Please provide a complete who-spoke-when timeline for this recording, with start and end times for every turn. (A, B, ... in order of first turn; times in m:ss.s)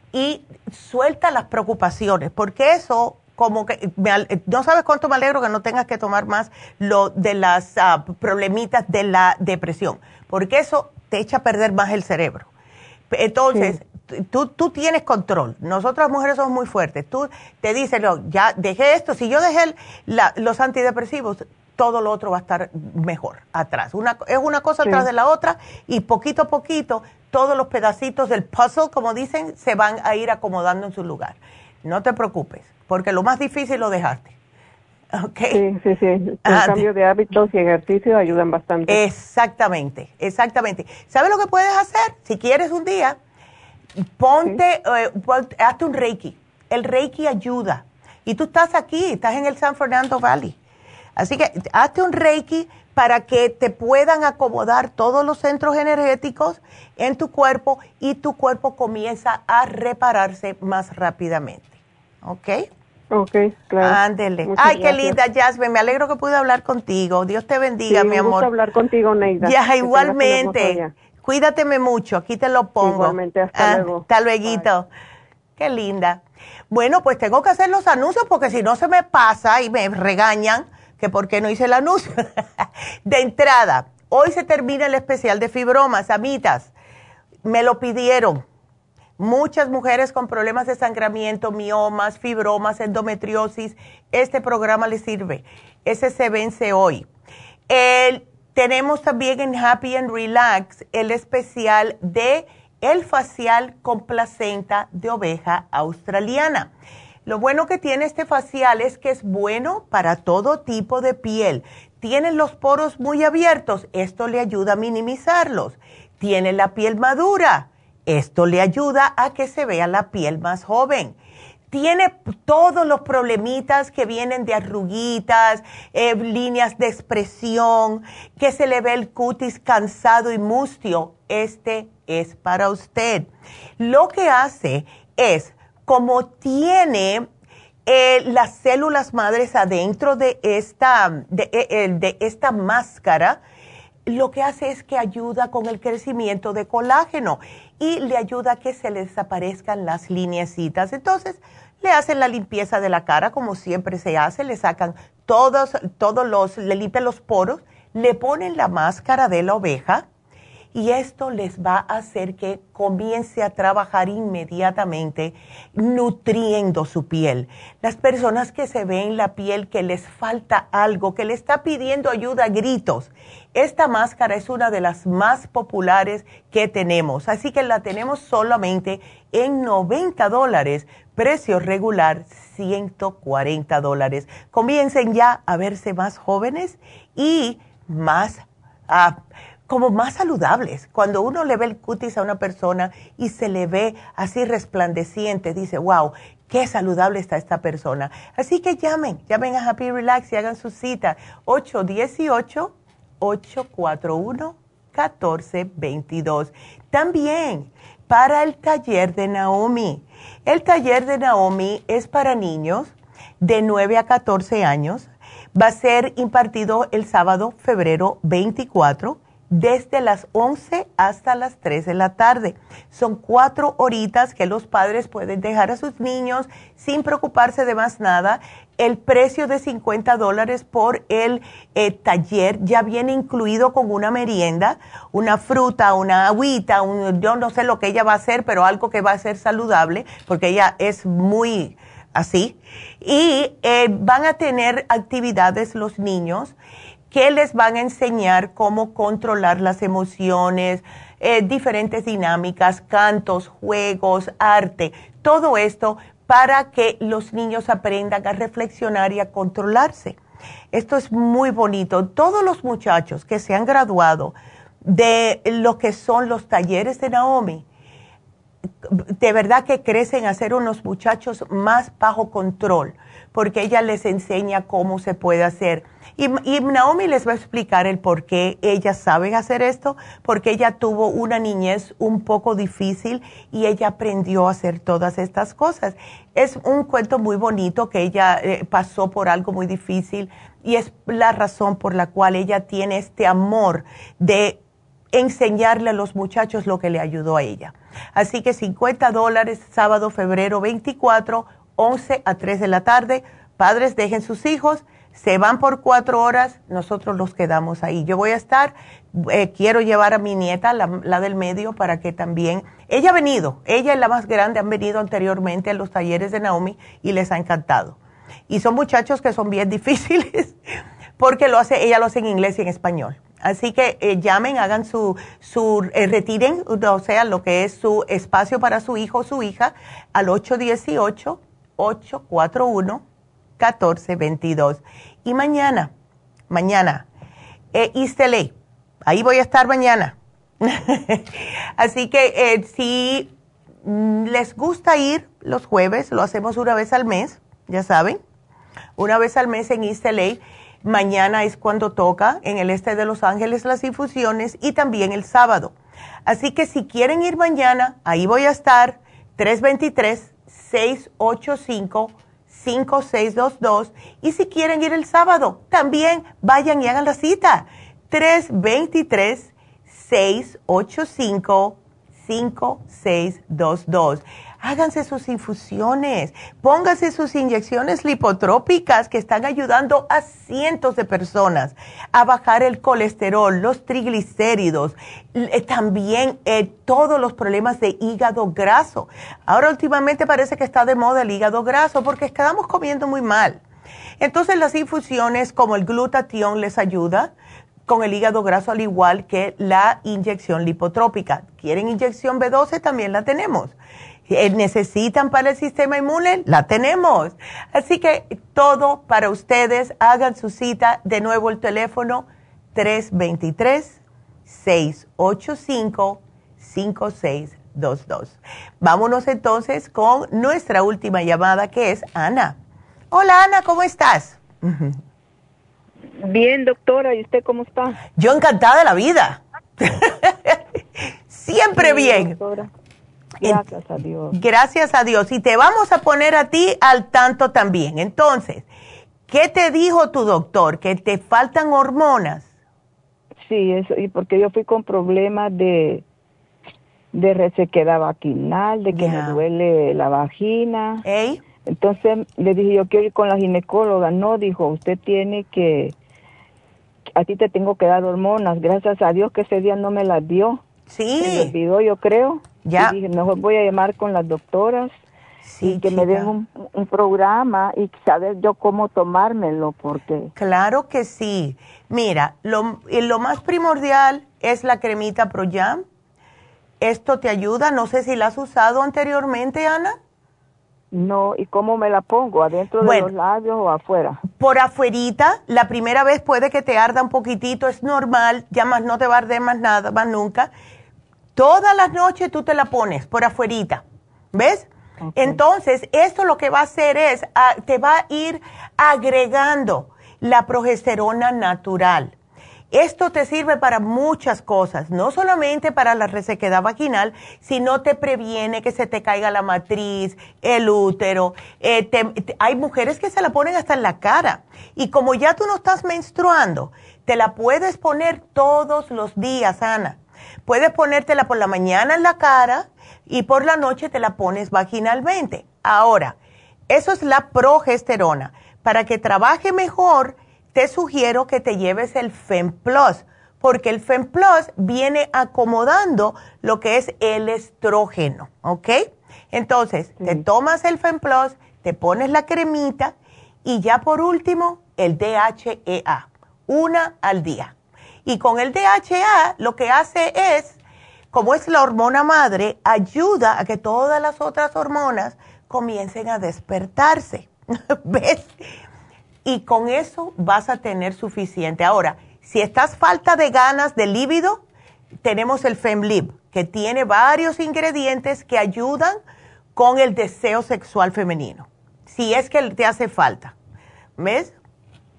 0:00.1-0:12.5 A
0:13.1-0:34.3 A
0:35.1-0:35.6 A
0:35.5-0:39.0 B
0:36.4-0:36.9 A
0:38.9-0:43.2 A
0:44.2-0:50.6 A
0:51.2-1:02.7 A
1:03.1-1:05.2 B
1:03.8-1:08.5 A
1:07.9-1:10.9 B
1:09.4-1:14.9 A
1:12.8-1:14.6 B
1:15.6-1:22.2 A
1:23.1-1:26.7 A
1:27.4-1:28.4 A
1:29.2-1:37.1 A
1:37.7-1:46.7 A
1:47.3-2:01.2 A
2:01.7-2:17.3 A
2:17.9-2:23.4 A
2:24.1-2:40.0 A
2:40.7-4:06.6 A
4:07.1-4:20.2 A
4:20.7-4:27.6 A
4:28.9-4:54.6 A
4:55.1-5:18.0 A
5:18.5-5:20.6 A
5:21.2-5:33.0 A
5:33.6-5:35.9 A
5:36.5-5:37.1 A
5:37.7-5:38.5 A
5:39.0-5:43.3 A
5:43.8-5:48.2 A
5:49.0-5:55.7 A
5:56.3-6:33.6 A
6:34.2-6:37.3 A
6:37.9-6:43.8 A
6:44.3-7:02.6 A
7:03.1-7:05.0 A
7:06.2-7:08.0 C
7:08.2-7:10.6 A
7:11.3-7:12.4 A
7:11.8-7:12.7 C
7:13.4-7:14.4 C
7:14.3-7:18.6 A
7:19.3-7:22.5 A
7:23.5-7:26.0 C
7:27.1-7:31.0 C
7:28.9-7:29.4 A
7:31.0-7:31.4 A
7:31.7-7:36.0 C
7:37.2-7:40.6 C
7:40.9-7:41.5 A
7:41.2-7:45.0 C
7:42.6-7:43.0 A
7:45.4-7:46.3 A
7:45.6-7:50.3 C
7:50.4-7:55.8 A
7:56.8-8:00.0 A
8:00.9-8:04.2 C
8:02.8-8:03.1 A
8:04.3-8:10.5 A
8:11.4-8:22.1 A
8:15.0-8:15.4 C
8:22.7-8:46.2 A
8:46.7-9:07.5 A
9:08.1-9:10.6 A
9:11.1-9:18.3 A
9:19.2-9:24.4 A
9:25.0-9:29.0 A
9:29.6-9:33.3 A
9:34.0-9:34.3 A